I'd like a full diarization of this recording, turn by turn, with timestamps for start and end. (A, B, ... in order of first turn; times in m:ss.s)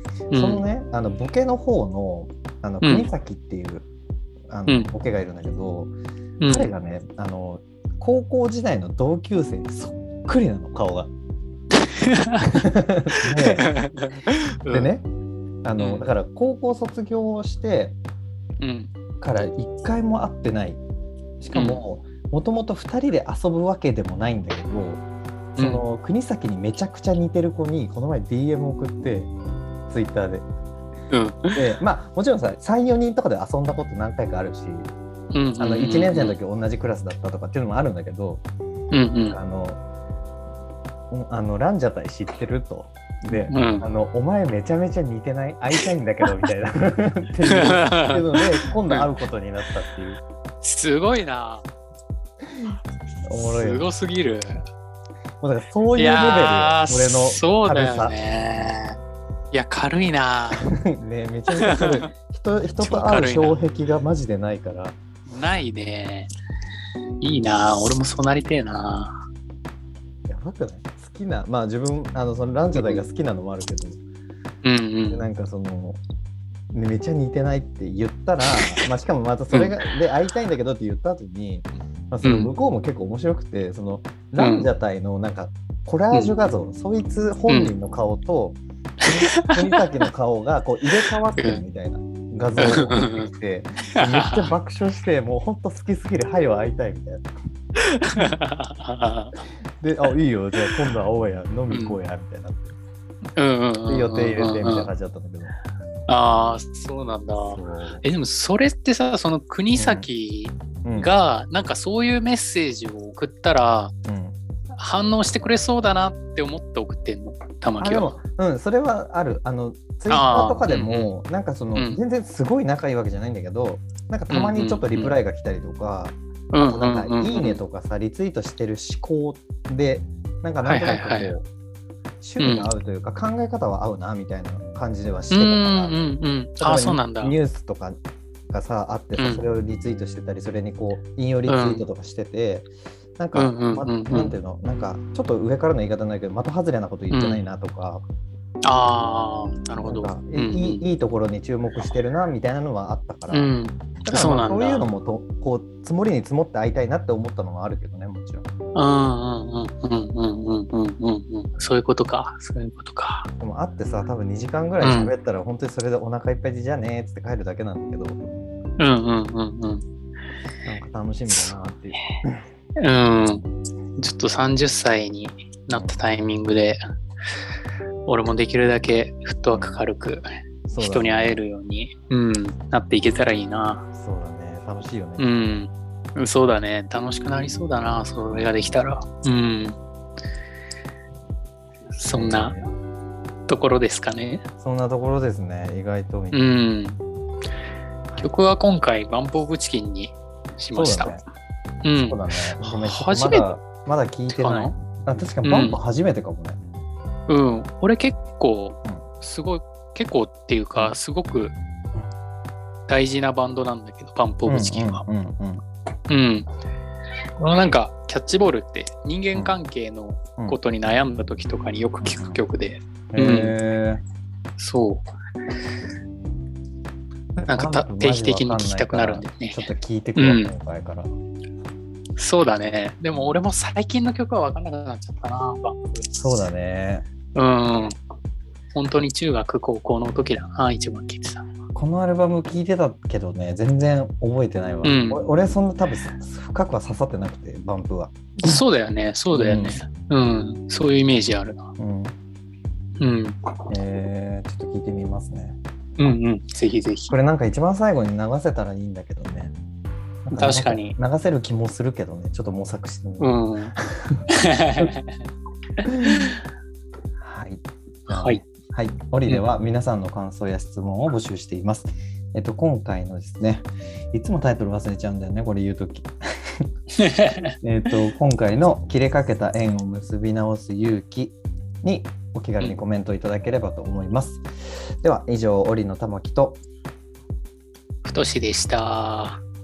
0:00.3-0:00.6 A
0:00.3-0:03.9 B
0:02.8-0:03.1 A
0:04.5-0:05.9 B
0:06.4-0:06.7 A
0:06.5-0:11.1 B
0:12.0-0:12.5 A
0:12.6-0:13.6 B
0:13.4-0:14.9 A
0:14.7-0:15.0 B
0:15.6-0:18.0 B
0:15.8-0:16.1 A
0:18.6-0:18.9 A
0:19.2-0:20.8 B
0:21.4-0:25.0 B
0:21.5-0:21.8 A
0:25.6-0:25.8 A
0:25.6-0:29.3 B
0:29.9-0:30.4 B
0:31.1-0:31.8 A
0:31.5-0:34.9 B
0:35.3-0:36.4 A
0:35.6-0:38.4 B
0:38.9-0:39.4 A
0:39.3-0:39.8 B
0:41.1-0:50.2 B
0:43.3-0:43.9 A
0:45.8-0:46.3 A
0:47.4-0:49.1 A
0:50.6-0:51.6 A
0:53.2-0:53.9 B
0:53.4-0:54.6 A
0:55.4-0:58.8 B
0:55.9-0:59.0 A
0:59.5-1:00.7 A
1:00.6-1:05.0 B
1:01.6-1:02.1 A
1:02.8-1:03.6 A
1:05.3-1:06.3 A
1:07.2-1:09.2 A
1:10.3-1:14.0 B
1:12.7-1:13.0 A
1:14.6-1:15.2 A
1:15.1-1:16.0 B
1:16.7-1:37.3 B
1:18.4-1:18.8 A
1:19.5-1:19.8 A
1:22.2-1:22.5 A
1:24.4-1:24.7 A
1:27.5-1:27.7 A
1:29.0-1:29.5 A
1:31.4-1:31.6 A
1:32.6-1:33.3 A
1:33.9-1:34.5 A
1:38.1-1:39.4 A
1:39.8-1:42.7 B
1:41.7-1:42.0 A
1:43.4-1:44.9 A
1:43.9-1:45.5 B
1:46.1-1:53.9 A
1:47.4-1:48.0 B
1:49.7-1:50.1 B
1:50.8-1:51.1 B
1:54.0-1:54.4 B
1:54.8-1:58.1 A
1:57.8-2:11.4 B
2:00.1-2:01.1 A
2:01.8-2:02.0 A
2:04.3-2:05.1 A
2:06.5-2:07.6 A
2:10.6-2:11.3 A
2:12.2-2:18.0 B
2:12.4-2:12.7 A
2:15.3-2:17.4 A
2:18.5-2:28.0 B
2:19.2-2:19.4 A
2:21.5-2:21.8 A
2:23.4-2:24.3 A
2:27.1-2:27.4 A
2:28.6-2:30.8 A
2:29.8-2:33.5 B
2:33.3-2:34.8 A
2:34.0-2:38.4 B
2:38.7-2:43.3 A
2:43.4-2:48.2 B
2:44.8-2:45.1 A
2:48.8-2:49.8 A
2:50.6-2:52.4 B
2:52.8-2:53.4 A
2:54.0-2:56.8 A
2:55.7-2:56.0 B
2:58.0-3:03.8 A
2:59.5-2:59.8 B
3:00.7-3:01.4 B
3:04.0-3:05.6 B
3:05.2-3:09.8 A
3:08.3-3:08.8 B
3:12.0-3:12.6 A
3:12.1-3:12.6 B
3:13.5-3:14.4 A
3:14.6-3:16.6 B
3:16.3-3:17.0 A
3:18.2-3:21.2 A
3:20.7-3:21.2 B
3:21.8-3:23.5 A
3:22.0-3:26.6 B
3:24.3-3:24.7 A
3:25.4-3:25.8 A
3:27.3-3:31.5 A
3:32.9-3:35.0 A
3:34.4-3:35.6 B
3:36.1-3:36.5 A
3:37.4-3:43.5 A
3:42.0-3:42.4 B
3:43.1-3:44.0 B
3:44.6-3:45.0 A
3:47.4-3:51.1 B
3:47.4-3:49.6 A
3:50.2-3:50.5 A
3:52.2-3:56.1 A
3:56.1-3:57.0 B
3:57.4-3:57.9 A
3:58.7-4:01.5 A
4:01.7-4:08.6 B
4:04.8-4:05.2 A
4:08.4-4:11.7 A
4:09.3-4:09.8 B
4:11.8-4:12.1 B
4:13.0-4:13.4 A
4:13.7-4:15.6 B
4:16.0-4:17.1 A
4:17.1-4:19.5 B
4:20.2-4:24.2 B
4:20.3-4:21.0 A
4:23.2-4:23.7 A
4:24.4-4:25.2 A
4:25.8-4:26.4 A
4:27.2-4:36.7 B
4:28.1-4:28.4 A
4:37.0-4:37.5 A
4:37.6-4:44.4 B
4:45.0-4:46.6 B
4:48.0-4:49.4 A